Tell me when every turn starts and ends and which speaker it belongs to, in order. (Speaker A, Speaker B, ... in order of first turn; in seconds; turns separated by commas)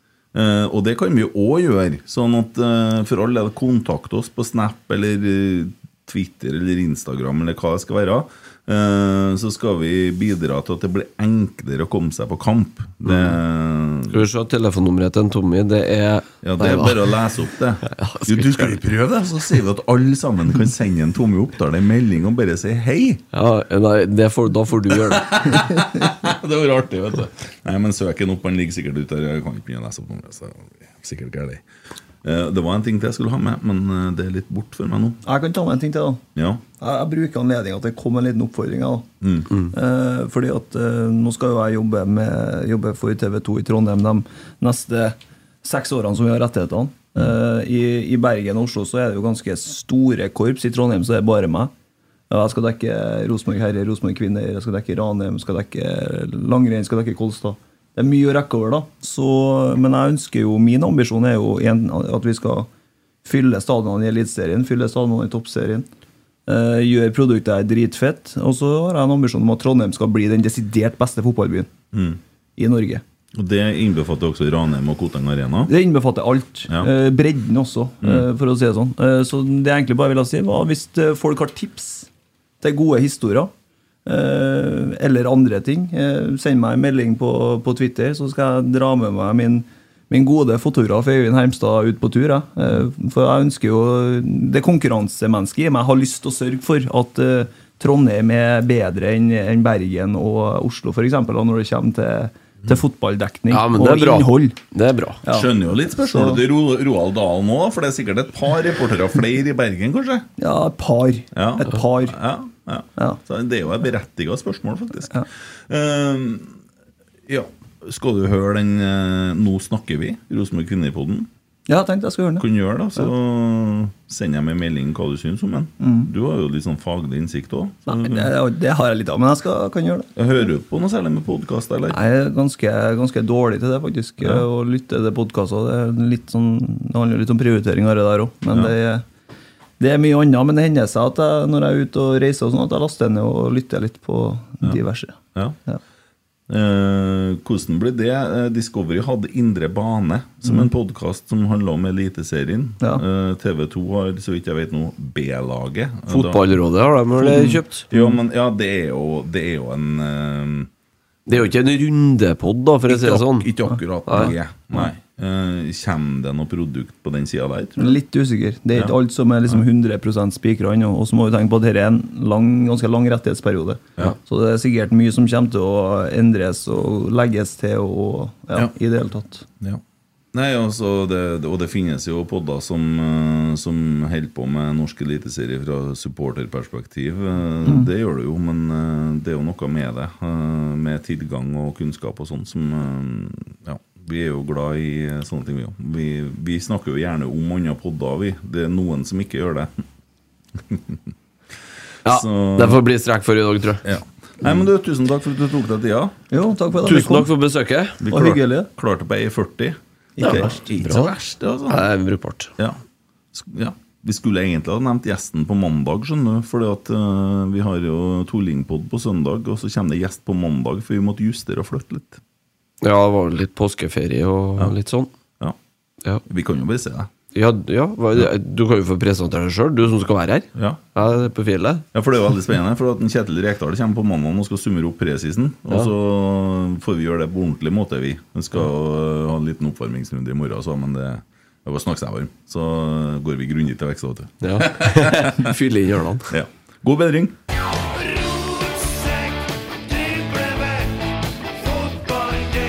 Speaker A: 0.3-14.2, Speaker B: 13.1-13.4, Speaker B: 14.1-17.0, Speaker A: 16.4-23.2, Speaker B: 17.8-18.8, Speaker B: 23.3-25.6, Speaker A: 25.1-31.6, Speaker A: 32.2-35.2, Speaker C: 35.2-36.2, Speaker A: 36.4-36.6, Speaker C: 36.8-39.1, Speaker A: 39.2-39.5, Speaker C: 39.7-51.7, Speaker C: 52.3-62.7, Speaker C: 63.2-65.9, Speaker C: 66.5-71.7, Speaker A: 71.9-72.2, Speaker C: 72.6-73.0, Speaker A: 73.3-75.7, Speaker C: 75.7-82.1, Speaker C: 82.6-83.5, Speaker C: 84.1-104.6, Speaker B: 103.5-105.2, Speaker C: 105.2-106.4, Speaker A: 105.3-110.3, Speaker C: 110.4-112.2, Speaker A: 111.3-116.6, Speaker A: 117.3-121.3, Speaker C: 121.7-122.5, Speaker A: 122.4-128.3, Speaker C: 125.8-126.1, Speaker C: 127.9-130.1, Speaker A: 130.2-132.0, Speaker C: 131.9-139.1, Speaker C: 139.8-145.8, Speaker A: 146.5-156.4, Speaker B: 156.1-157.8, Speaker C: 157.2-158.2, Speaker A: 157.9-160.7, Speaker B: 161.3-163.5, Speaker A: 162.9-168.0, Speaker B: 164.1-164.3, Speaker C: 167.8-179.4, Speaker A: 180.3-199.7, Speaker A: 200.7-201.0, Speaker A: 202.1-202.8, Speaker B: 202.1-203.8, Speaker A: 203.8-206.2, Speaker C: 206.3-207.3, Speaker B: 206.8-208.0, Speaker A: 208.0-211.8, Speaker C: 208.1-208.7, Speaker C: 210.2-210.6, Speaker B: 210.2-211.1, Speaker B: 211.7-212.5, Speaker A: 213.3-222.2, Speaker B: 222.8-225.1, Speaker A: 226.3-227.1, Speaker B: 227.3-231.8, Speaker A: 230.5-230.8, Speaker A: 231.9-245.6, Speaker B: 244.4-246.3, Speaker A: 246.3-247.4